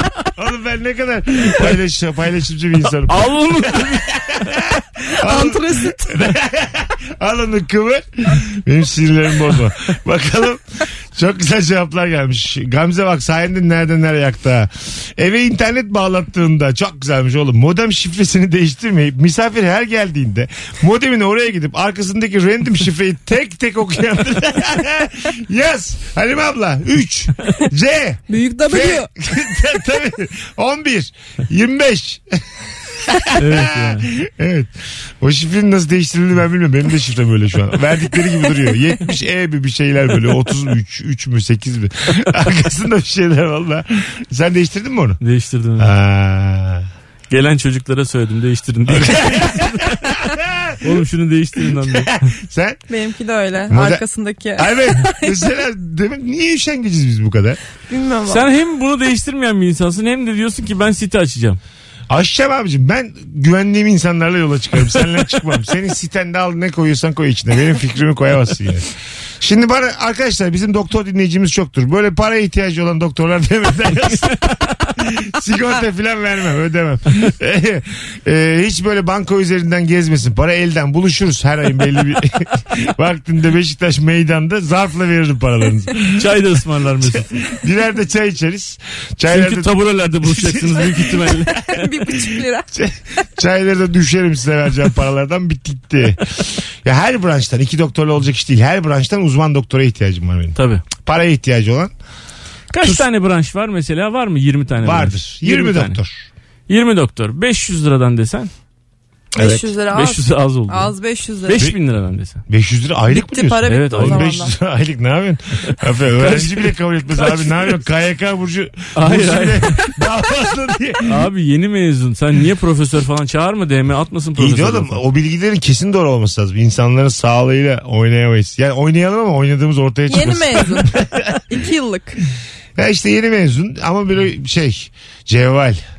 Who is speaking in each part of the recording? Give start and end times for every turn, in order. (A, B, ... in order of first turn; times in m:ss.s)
0:00.3-0:32.3 A
0:02.9-0:04.5 B
0:05.2-0:06.3 C
0:28.3-0:29.1 C
0:33.2-0:45.2 A
0:33.4-0:34.1 B
0:45.2-0:45.9 B
0:45.8-0:46.9 A
0:47.3-0:50.0 B
0:48.9-0:50.8 A
0:50.8-0:52.3 B
0:51.7-0:52.8 A
0:52.9-0:55.2 C
0:53.7-0:54.0 A
0:54.6-0:57.6 A
0:57.9-0:58.4 C
0:58.3-1:01.6 B
1:02.1-1:26.3 A
1:26.2-1:27.4 B
1:27.0-1:31.3 A
1:29.3-1:31.9 B
1:31.5-1:32.7 C
1:32.7-1:41.9 A
1:40.6-1:40.8 B
1:42.7-1:46.0 B
1:44.8-1:46.2 A
1:46.7-1:48.5 B
1:49.3-1:51.6 C
1:49.4-1:49.7 A
1:49.9-1:50.9 B
1:51.4-1:52.4 B
1:52.5-2:01.2 A
1:53.1-1:54.5 C
1:53.7-1:54.2 B
1:56.2-1:57.8 B
1:58.9-1:59.8 B
2:01.0-2:05.0 B
2:04.4-2:11.4 A
2:10.1-2:12.2 C
2:12.8-2:15.8 A